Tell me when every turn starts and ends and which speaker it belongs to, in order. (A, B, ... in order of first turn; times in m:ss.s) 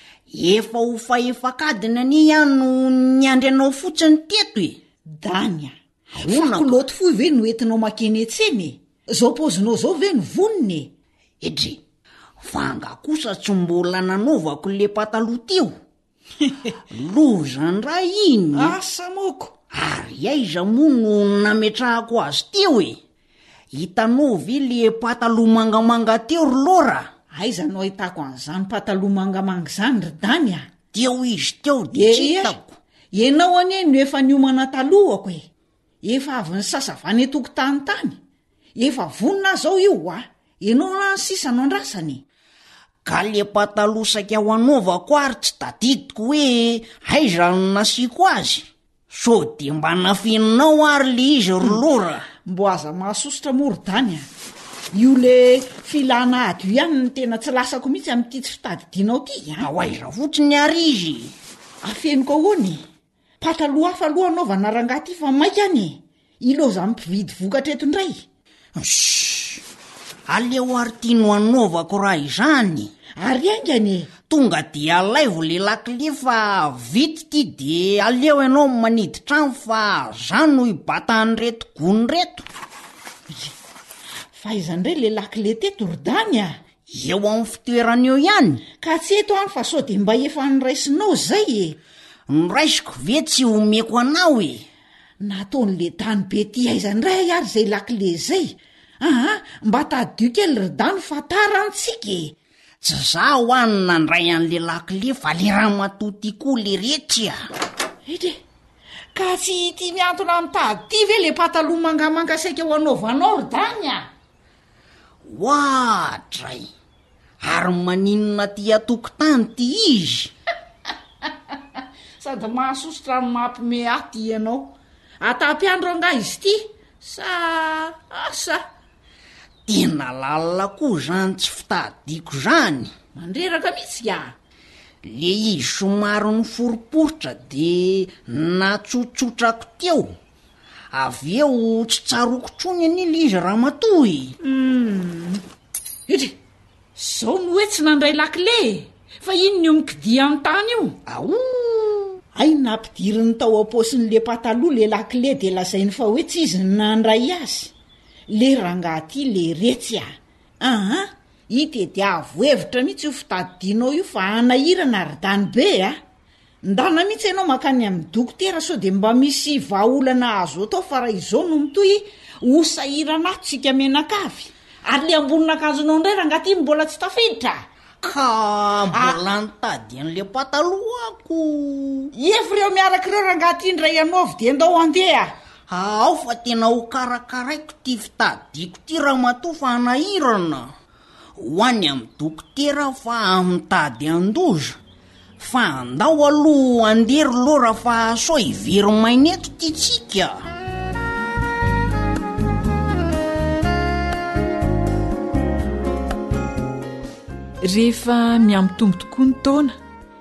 0:00.3-0:04.8 A
0:05.1-0:10.9 B
0:06.2-0:06.8 A
0:12.4-0:15.8 A
0:16.9-0:18.7 A
0:18.5-0:19.6 B
0:19.7-0:23.0 A
0:23.7-0:27.1 A
0:27.3-0:30.8 B
0:30.8-0:32.8 A
0:31.9-0:32.6 B
0:33.1-0:35.5 B
0:36.0-0:38.2 B
0:38.7-0:42.2 B
0:43.0-0:52.3 A
0:52.3-0:54.3 B
0:54.9-0:59.6 B
0:59.6-1:01.3 A
1:01.8-1:02.8 B
1:03.4-1:08.2 B
1:08.8-1:09.6 A
1:10.3-1:13.0 A
1:13.1-1:14.1 B
1:14.2-1:22.4 A
1:24.3-1:26.6 B
1:26.8-1:28.6 A
1:28.7-1:31.8 B
1:32.3-1:34.7 A
1:35.2-1:42.4 B
1:42.8-1:47.5 A
1:48.0-1:48.4 B
1:49.1-1:54.1 B
1:55.2-1:56.7 A
1:57.4-2:00.3 A
2:02.2-2:08.6 B
2:09.7-2:12.9 A
2:13.1-2:14.3 B
2:15.0-2:20.2 A
2:20.9-2:24.3 A
2:24.4-2:25.4 B
2:26.1-2:26.4 B
2:27.0-2:31.0 B
2:31.1-2:31.9 A
2:32.3-2:37.7 B
2:38.3-2:40.1 B
2:40.6-2:46.0 B
2:46.6-2:57.6 B
2:58.0-3:02.1 A
2:58.9-2:59.2 B
3:02.2-3:05.4 B
3:05.7-3:10.7 A
3:11.4-3:14.8 A
3:15.4-3:20.4 A
3:27.6-3:29.8 C